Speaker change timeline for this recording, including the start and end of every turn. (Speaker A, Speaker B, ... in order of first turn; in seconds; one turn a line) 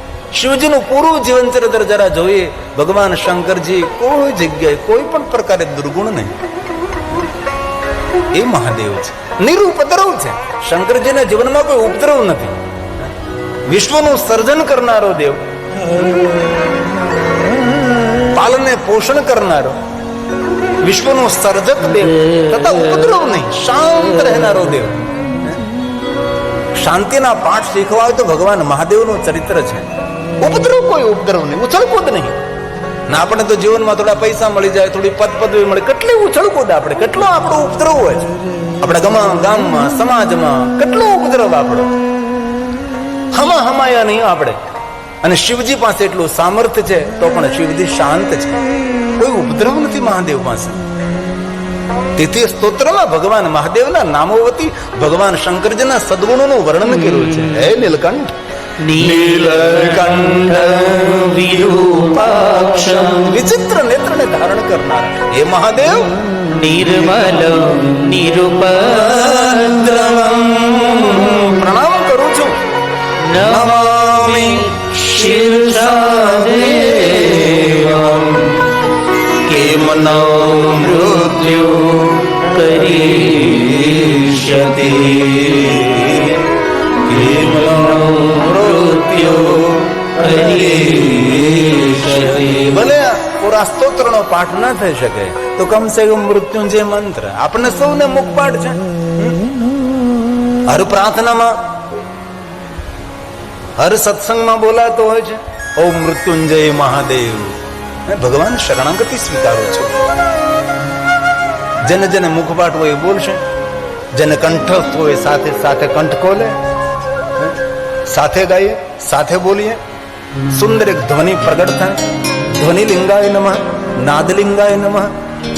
Speaker A: 0.3-6.3
Speaker A: 8.3-12.6
Speaker A: 13.7-15.4
Speaker A: 18.2-19.8
Speaker A: 20.8-25.6
Speaker A: 26.8-32.4
Speaker A: 33.1-41.9
Speaker A: 43.3-44.6
Speaker A: 45.2-48.6
Speaker A: 49.2-50.8
Speaker A: 52.1-58.3
Speaker B: 57.1-57.5
Speaker B: 58.8-63.4
Speaker A: 59.0-60.5
Speaker A: 63.1-66.2
Speaker B: 66.2-71.4
Speaker A: 69.5-72.6
Speaker B: 73.2-78.7
Speaker A: 73.3-74.7
Speaker B: 79.4-86.4
Speaker A: 79.5-80.9
Speaker A: 86.0-86.3
Speaker B: 87.1-92.9
Speaker A: 87.1-89.8
Speaker A: 90.3-91.1
Speaker A: 92.3-99.3
Speaker A: 100.7-101.6
Speaker A: 103.8-109.9
Speaker A: 111.8-113.4
Speaker A: 114.1-116.6
Speaker A: 118.1-119.8
Speaker A: 120.5-125.1